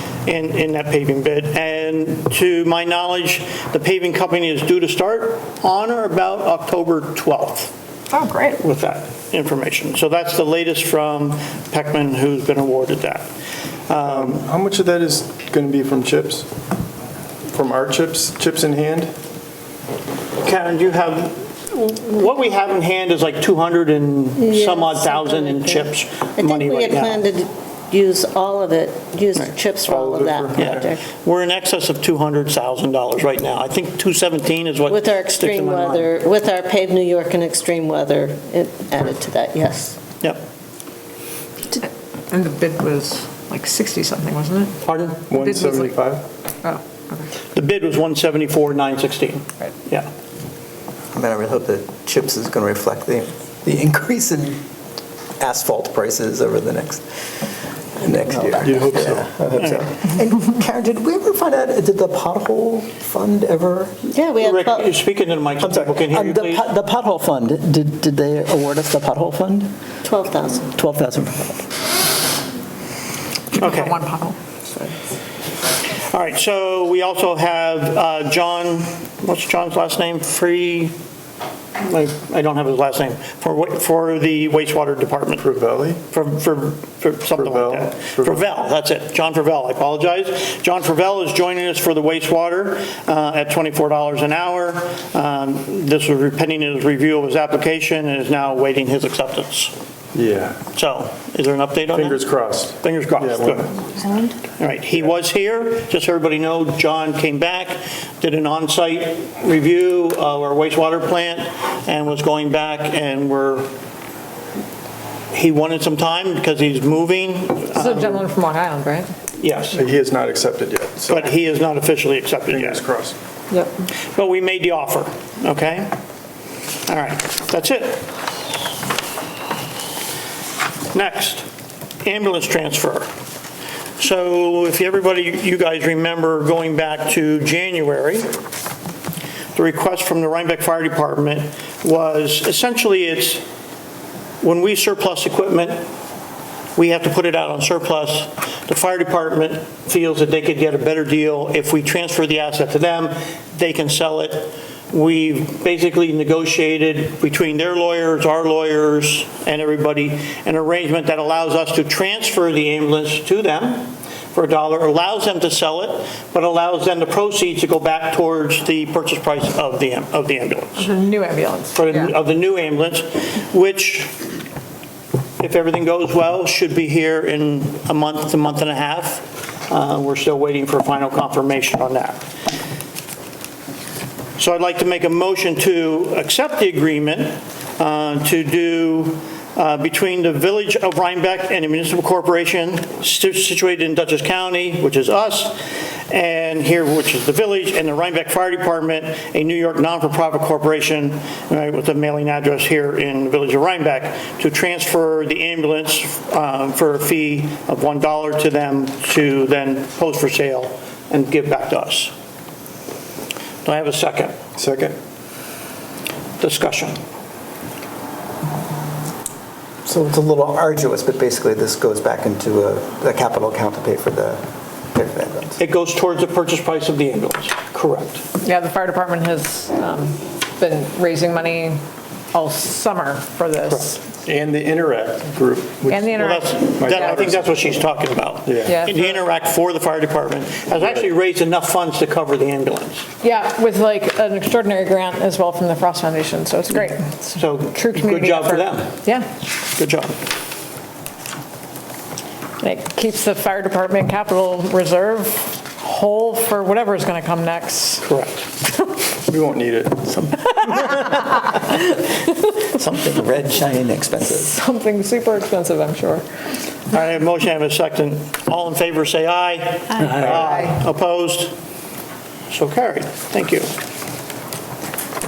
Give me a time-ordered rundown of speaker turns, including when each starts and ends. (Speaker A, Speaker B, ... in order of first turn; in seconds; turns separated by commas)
Speaker A: 0.3-7.7, Speaker B: 8.1-8.6, Speaker A: 8.6-13.3, Speaker A: 13.9-14.5, Speaker C: 14.0-16.5, Speaker C: 17.5-19.1, Speaker A: 20.4-27.3, Speaker D: 24.4-31.0, Speaker C: 29.8-30.9, Speaker A: 30.6-36.1, Speaker D: 34.9-40.0, Speaker B: 41.7-46.0, Speaker A: 44.8-45.3, Speaker C: 45.3-46.2, Speaker B: 46.6-47.3, Speaker A: 47.5-50.1, Speaker E: 51.1-54.6, Speaker E: 55.4-57.0, Speaker E: 58.0-63.9, Speaker C: 58.6-59.3, Speaker D: 64.1-65.0, Speaker A: 64.4-66.6, Speaker E: 65.6-69.7, Speaker D: 70.0-70.7, Speaker E: 70.7-71.7, Speaker B: 73.5-75.0, Speaker A: 73.5-74.0, Speaker A: 76.0-80.9, Speaker A: 81.8-85.4, Speaker C: 85.4-86.0, Speaker A: 86.1-99.7, Speaker C: 87.3-88.5, Speaker C: 100.1-100.6, Speaker A: 100.7-103.8, Speaker C: 101.9-104.0, Speaker A: 104.6-113.7, Speaker A: 115.3-118.2, Speaker B: 117.7-119.1, Speaker A: 119.4-119.8, Speaker C: 119.7-121.4, Speaker A: 121.1-122.8, Speaker C: 122.5-123.2, Speaker A: 124.1-125.9, Speaker A: 126.9-128.1, Speaker A: 130.9-131.5, Speaker A: 132.0-133.1, Speaker A: 134.0-138.3, Speaker A: 139.5-143.4, Speaker A: 144.4-145.9, Speaker A: 146.8-170.9, Speaker B: 170.8-172.1, Speaker A: 171.8-174.2, Speaker A: 175.4-182.2, Speaker A: 184.4-195.6, Speaker A: 196.1-212.1, Speaker A: 213.7-214.3, Speaker C: 214.6-215.0, Speaker A: 216.4-217.0, Speaker E: 219.8-225.6, Speaker A: 225.6-228.2, Speaker B: 228.4-231.8, Speaker B: 232.3-234.0, Speaker C: 234.2-237.8, Speaker B: 235.9-237.2, Speaker A: 236.2-243.1, Speaker C: 238.4-238.8, Speaker B: 238.7-239.2, Speaker C: 240.7-241.1, Speaker B: 243.2-249.3, Speaker A: 247.3-249.1, Speaker A: 249.8-250.2, Speaker B: 252.6-258.1, Speaker A: 258.0-258.5, Speaker C: 259.3-260.1, Speaker E: 260.0-264.6, Speaker B: 264.2-266.2, Speaker A: 266.9-271.5, Speaker A: 272.5-273.7